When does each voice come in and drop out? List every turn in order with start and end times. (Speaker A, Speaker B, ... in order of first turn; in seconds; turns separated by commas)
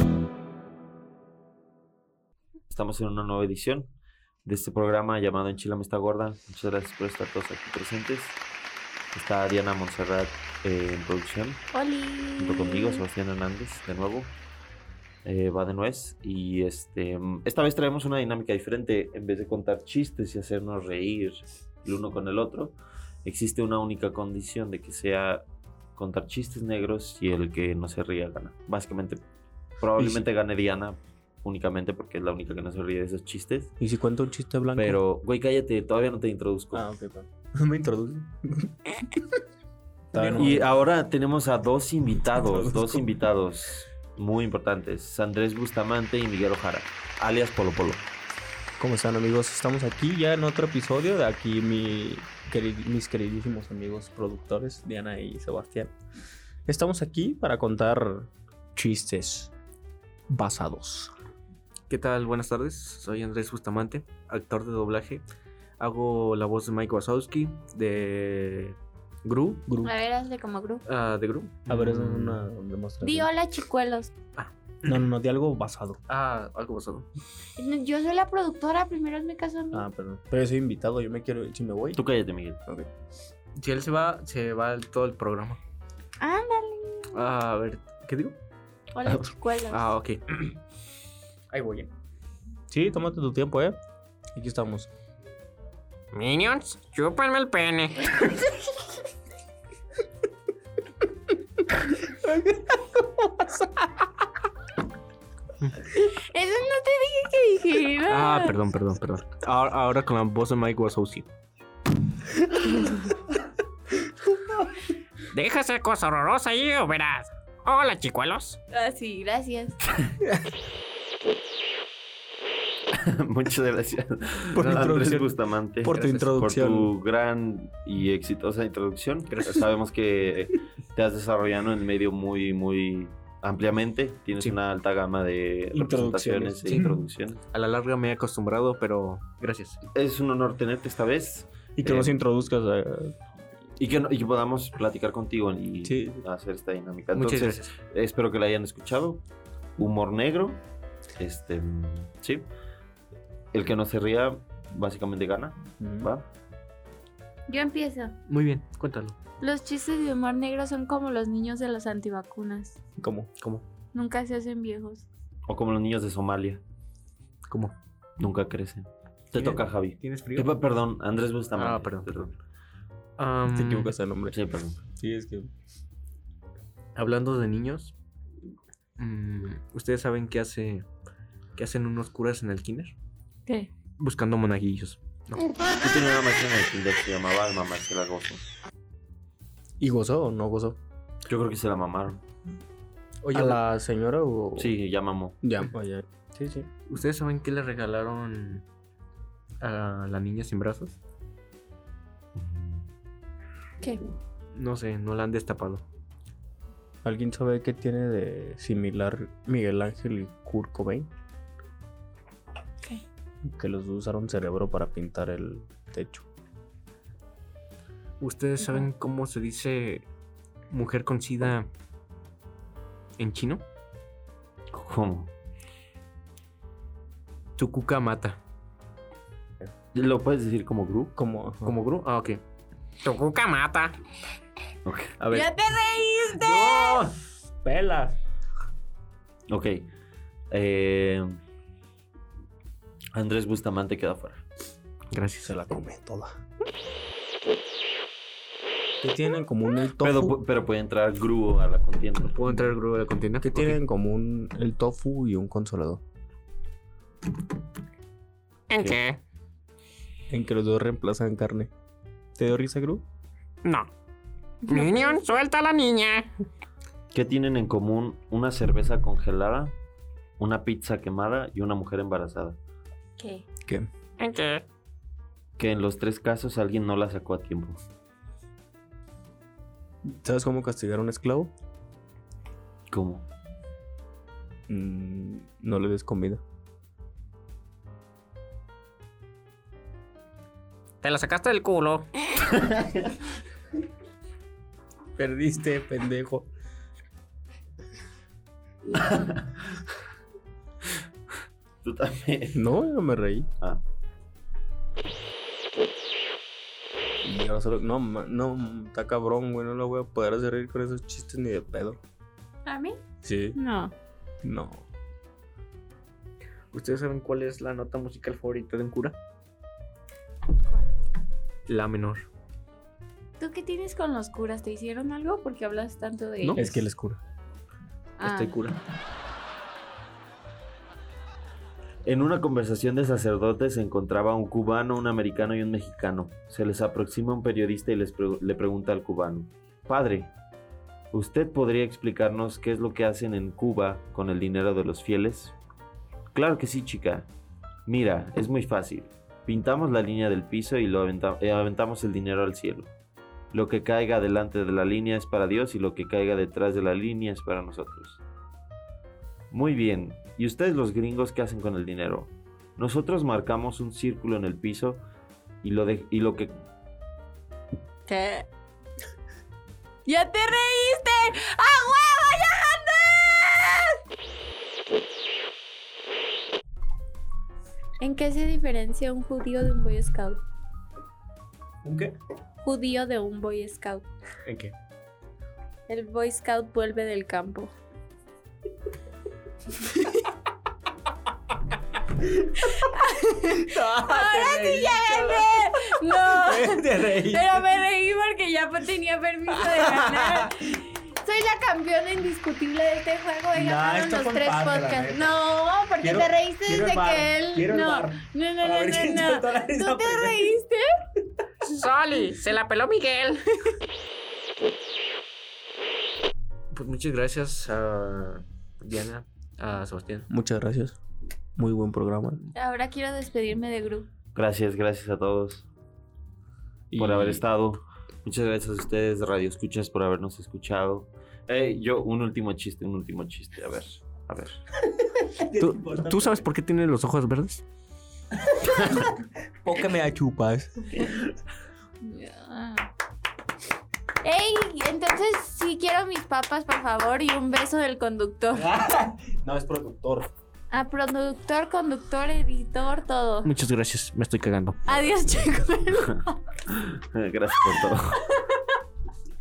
Speaker A: 2.7-3.9, Speaker A: 4.4-8.4, Speaker A: 9.1-11.6, Speaker B: 11.7-13.0, Speaker A: 12.4-14.3, Speaker A: 15.2-25.4, Speaker A: 26.0-29.2, Speaker A: 29.8-33.7, Speaker C: 30.0-30.2, Speaker C: 33.8-35.0, Speaker A: 34.8-36.8, Speaker C: 36.7-39.2, Speaker C: 40.1-40.7, Speaker A: 40.1-48.0, Speaker C: 42.5-43.0, Speaker C: 48.8-55.9, Speaker C: 56.7-59.5, Speaker C: 60.3-61.1, Speaker D: 61.9-65.2, Speaker D: 65.8-69.7, Speaker C: 69.7-70.0, Speaker B: 69.8-70.8, Speaker D: 70.8-72.4, Speaker C: 71.7-73.3, Speaker B: 73.0-74.1, Speaker D: 74.4-75.1, Speaker C: 74.8-76.0, Speaker D: 76.1-77.0, Speaker B: 77.6-79.8, Speaker C: 79.7-82.0, Speaker A: 81.9-82.6, Speaker D: 83.5-85.6, Speaker B: 86.2-87.2, Speaker D: 87.1-88.4, Speaker B: 88.9-89.8, Speaker D: 89.7-90.5, Speaker D: 91.5-91.9, Speaker C: 92.7-93.8, Speaker C: 94.3-94.9, Speaker E: 96.1-98.2, Speaker C: 102.1-104.0, Speaker B: 105.8-108.6, Speaker D: 108.0-111.3, Speaker E: 115.3-118.6, Speaker B: 118.7-119.8, Speaker A: 123.0-137.4, Speaker C: 124.5-126.9, Speaker D: 124.6-125.0, Speaker D: 125.8-126.3, Speaker D: 129.3-129.7, Speaker C: 135.7-137.0, Speaker D: 137.5-139.8, Speaker A: 139.9-142.1, Speaker C: 141.8-143.1, Speaker A: 143.8-149.2, Speaker C: 145.8-146.2, Speaker D: 147.1-147.7, Speaker A: 149.8-150.6, Speaker A: 151.2-152.4, Speaker A: 153.5-156.3, Speaker C: 155.8-156.1, Speaker B: 157.5-158.2, Speaker D: 158.3-159.2, Speaker B: 159.4-162.8, Speaker C: 163.0-163.3, Speaker D: 163.4-163.7, Speaker B: 163.9-165.1, Speaker A: 165.5-166.6, Speaker D: 167.5-167.7, Speaker A: 168.2-172.3, Speaker D: 169.4-170.5, Speaker D: 171.5-172.3, Speaker D: 173.2-173.9, Speaker C: 173.5-174.4, Speaker A: 174.3-174.8, Speaker C: 174.9-175.5, Speaker D: 176.9-177.9, Speaker D: 179.0-180.9, Speaker D: 181.6-182.9, Speaker D: 184.0-185.5, Speaker A: 185.8-188.4, Speaker C: 189.8-190.8, Speaker A: 191.3-192.2, Speaker D: 193.2-193.6, Speaker C: 193.3-194.7, Speaker A: 194.6-195.4, Speaker C: 195.4-196.7, Speaker D: 196.9-198.6, Speaker D: 199.6-201.0, Speaker A: 202.3-202.8, Speaker D: 204.5-205.8, Speaker C: 207.0-211.1, Speaker C: 213.4-216.3, Speaker D: 218.2-220.0, Speaker B: 218.6-218.9, Speaker D: 220.7-221.7, Speaker D: 223.2-223.6, Speaker A: 224.7-225.3, Speaker D: 227.6-228.4, Speaker A: 229.9-231.1, Speaker C: 231.2-231.8, Speaker D: 231.6-232.4, Speaker E: 233.0-233.9, Speaker D: 233.3-233.9, Speaker A: 234.8-235.1, Speaker D: 235.2-235.5, Speaker B: 235.3-237.0, Speaker D: 236.4-237.1, Speaker C: 237.6-238.2, Speaker A: 239.5-239.9, Speaker A: 240.5-241.4, Speaker A: 243.1-244.4, Speaker D: 245.1-245.5, Speaker C: 245.4-246.3, Speaker C: 249.0-250.4, Speaker A: 250.0-252.3, Speaker D: 252.2-253.8, Speaker C: 253.4-256.0, Speaker E: 258.7-259.2, Speaker C: 260.3-261.7, Speaker C: 262.4-263.0, Speaker E: 263.6-263.9, Speaker B: 264.6-265.2, Speaker E: 264.7-266.3, Speaker A: 267.1-269.7, Speaker A: 270.4-272.6, Speaker B: 273.2-273.4, Speaker E: 274.2-274.6, Speaker A: 275.6-277.8, Speaker C: 280.0-281.5, Speaker A: 282.9-283.3, Speaker C: 284.7-286.4, Speaker E: 291.0-292.1, Speaker A: 292.6-293.0, Speaker C: 295.2-296.5, Speaker A: 298.9-299.8, Speaker A: 301.8-302.6, Speaker C: 302.5-303.5, Speaker C: 307.2-312.0, Speaker B: 312.6-313.0, Speaker C: 313.2-313.6, Speaker B: 313.5-313.9, Speaker C: 314.4-314.9, Speaker D: 316.7-319.1, Speaker D: 321.7-322.3, Speaker B: 323.4-326.6, Speaker D: 326.4-326.8, Speaker C: 326.5-327.2, Speaker B: 328.2-328.6, Speaker D: 328.2-328.8, Speaker A: 332.0-340.3, Speaker A: 341.1-345.6, Speaker A: 346.3-347.3, Speaker A: 347.9-352.9, Speaker A: 353.5-358.2, Speaker A: 359.5-365.0, Speaker A: 365.6-366.6, Speaker B: 368.1-368.5, Speaker B: 370.1-373.9, Speaker B: 378.0-380.4, Speaker D: 381.8-382.1, Speaker B: 382.6-384.1, Speaker D: 384.4-384.7, Speaker B: 385.9-387.7, Speaker B: 392.6-410.9, Speaker C: 393.7-395.2, Speaker D: 393.9-395.4, Speaker C: 396.1-397.5, Speaker C: 399.7-400.5, Speaker C: 403.5-405.4, Speaker C: 406.0-410.5, Speaker E: 411.6-413.7, Speaker D: 416.7-420.3, Speaker C: 420.3-421.0, Speaker C: 421.6-422.4, Speaker B: 422.5-424.1, Speaker A: 424.3-425.7, Speaker C: 426.9-427.4, Speaker A: 426.9-434.6, Speaker C: 435.2-436.4, Speaker D: 435.5-437.6, Speaker C: 438.5-439.1, Speaker C: 439.6-441.2, Speaker B: 442.0-442.9, Speaker B: 444.2-448.7, Speaker C: 448.5-450.3, Speaker B: 450.7-453.5, Speaker D: 453.4-454.9, Speaker B: 454.9-456.6, Speaker A: 456.7-458.2